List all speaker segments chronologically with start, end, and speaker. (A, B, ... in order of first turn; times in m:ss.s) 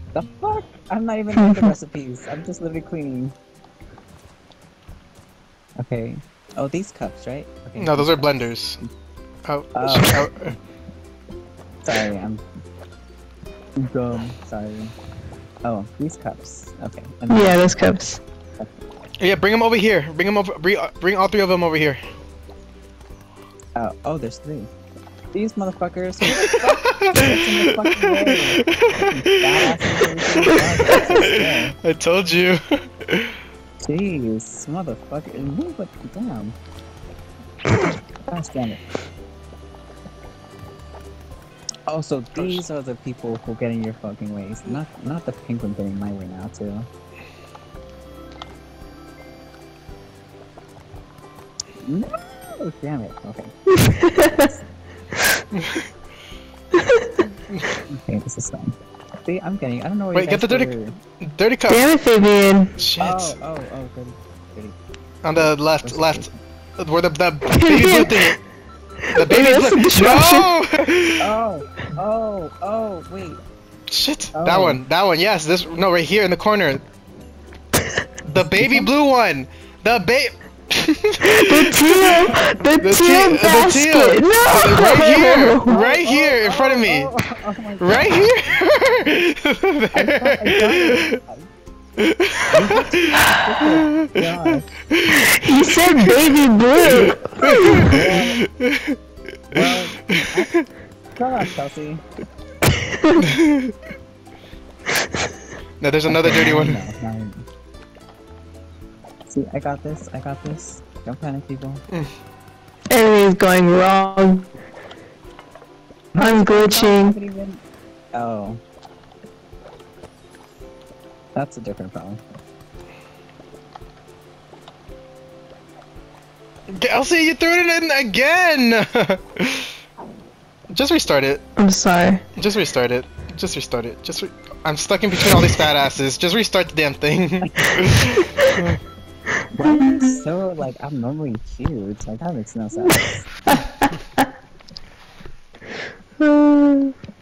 0:00.1-0:03.3 A
0:05.8-0:08.9 A
0:07.8-0:08.8 B
0:09.4-0:10.5 B
0:09.7-0:10.2 A
0:11.8-0:12.4 A
0:13.8-0:14.9 A
0:15.6-0:17.8 A
0:17.3-0:18.2 C
0:19.2-0:22.0 B
0:23.8-0:24.7 A
0:25.3-0:31.8 A
0:26.2-0:33.3 B
0:33.8-0:36.6 A
0:38.3-0:38.9 A
0:41.9-0:46.9 A
0:42.4-0:42.6 B
0:51.9-0:53.5 A
0:53.8-0:54.5 C
0:54.2-0:54.6 A
0:55.5-0:55.9 B
0:57.9-1:01.0 A
1:00.1-1:01.9 B
1:01.7-1:02.7 C
1:02.8-1:03.4 B
1:03.0-1:04.8 A
1:05.2-1:08.3 B
1:05.3-1:06.4 A
1:07.5-1:08.4 C
1:09.1-1:10.5 C
1:09.1-1:11.2 B
1:11.2-1:13.4 A
1:13.9-1:16.8 B
1:14.3-1:14.8 A
1:18.3-1:27.1 B
1:18.3-1:18.9 A
1:21.3-1:25.7 C
1:25.6-1:28.6 A
1:27.8-1:31.2 B
1:29.9-1:31.5 A
1:32.0-1:32.5 B
1:32.5-1:34.7 A
1:34.0-1:34.3 B
1:34.9-1:35.3 B
1:35.3-1:38.0 C
1:35.8-1:36.2 B
1:36.8-1:38.9 B
1:37.7-1:38.4 A
1:39.5-1:40.5 A
1:39.5-1:40.6 B
1:41.2-1:42.0 A
1:43.2-1:43.7 B
1:45.8-1:46.8 B
1:46.0-1:47.4 A
1:49.3-1:51.8 A
1:52.9-1:54.5 C
1:56.1-1:58.6 A
1:56.2-1:57.2 C
2:01.3-2:02.2 A
2:06.7-2:09.7 B
2:10.7-2:11.4 B
2:11.6-2:12.2 C
2:12.4-2:18.8 B
2:19.5-2:23.3 A
2:23.5-2:23.9 C
2:26.2-2:26.9 C